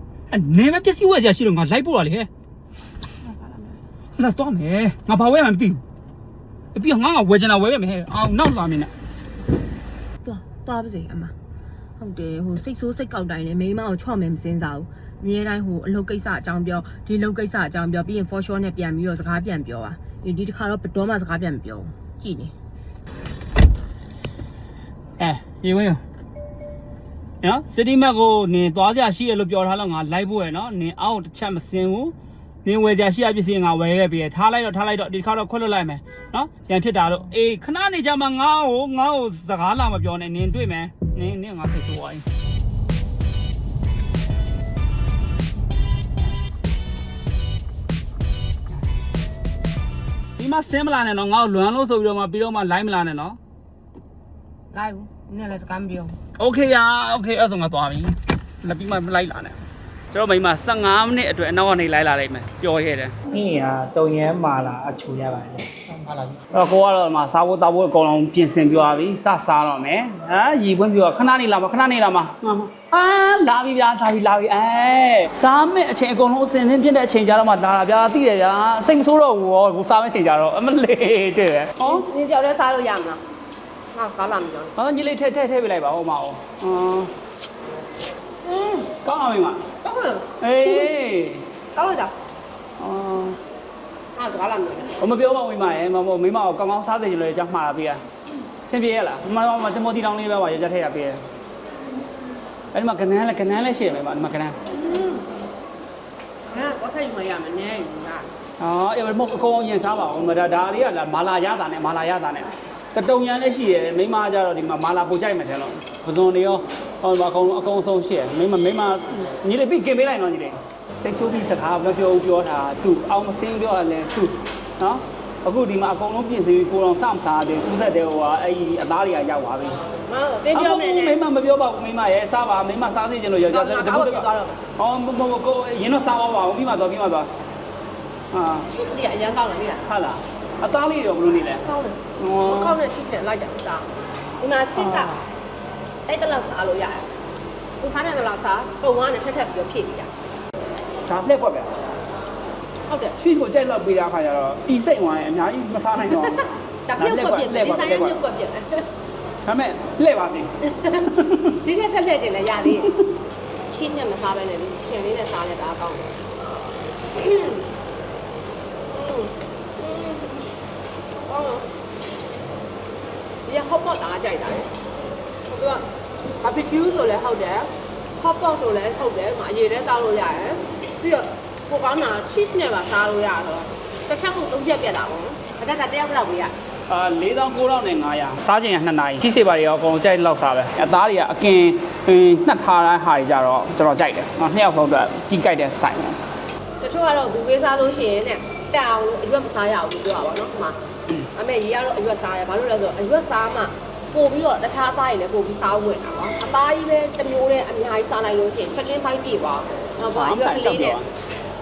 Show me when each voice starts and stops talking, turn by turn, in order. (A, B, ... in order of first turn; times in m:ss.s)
0:00.3-0:02.3 A
0:03.2-0:03.7 B
0:04.2-0:05.8 A
0:06.7-0:08.9 A
0:10.2-0:11.3 B
0:12.0-0:22.5 B
0:25.2-0:26.0 A
0:27.4-0:32.1 A
0:32.6-0:42.2 A
0:50.4-0:53.4 A
0:54.7-0:56.2 B
0:56.4-0:59.6 A
1:00.1-1:03.2 A
1:03.3-1:06.4 C
1:06.5-1:22.0 A
1:21.8-1:23.2 B
1:23.9-1:24.7 B
1:24.8-1:27.1 A
1:28.4-1:28.9 B
1:29.0-1:29.6 A
1:29.8-1:30.9 B
1:30.4-1:31.4 A
1:31.7-1:32.1 B
1:32.8-1:33.4 A
1:34.1-1:35.0 B
1:35.0-1:38.0 A
1:38.7-1:41.2 A
1:42.7-1:44.6 A
1:44.7-1:45.2 B
1:46.5-1:48.3 B
1:48.6-2:09.8 A
2:10.1-2:11.2 B
2:10.5-2:14.2 A
2:13.5-2:14.6 B
2:14.8-2:17.3 A
2:18.3-2:18.7 A
2:18.7-2:19.8 B
2:19.9-2:21.6 A
2:21.6-2:23.9 B
2:22.2-2:22.8 A
2:24.4-2:25.2 B
2:24.8-2:25.1 A
2:26.1-2:27.1 B
2:27.8-2:30.1 B
2:31.1-2:31.7 A
2:32.9-2:33.2 B
2:33.2-2:36.4 A
2:36.1-2:38.8 B
2:37.0-2:38.2 A
2:39.5-2:41.5 A
2:40.7-2:41.0 B
2:41.5-2:42.9 B
2:43.7-2:46.2 B
2:47.1-2:47.7 B
2:48.9-2:50.5 B
2:51.3-2:51.7 B
2:53.5-2:54.7 B
2:55.5-2:55.8 B
2:56.4-3:06.5 B
3:06.9-3:16.2 A
3:16.8-3:20.8 B
3:21.3-3:31.0 B
3:30.1-3:31.1 A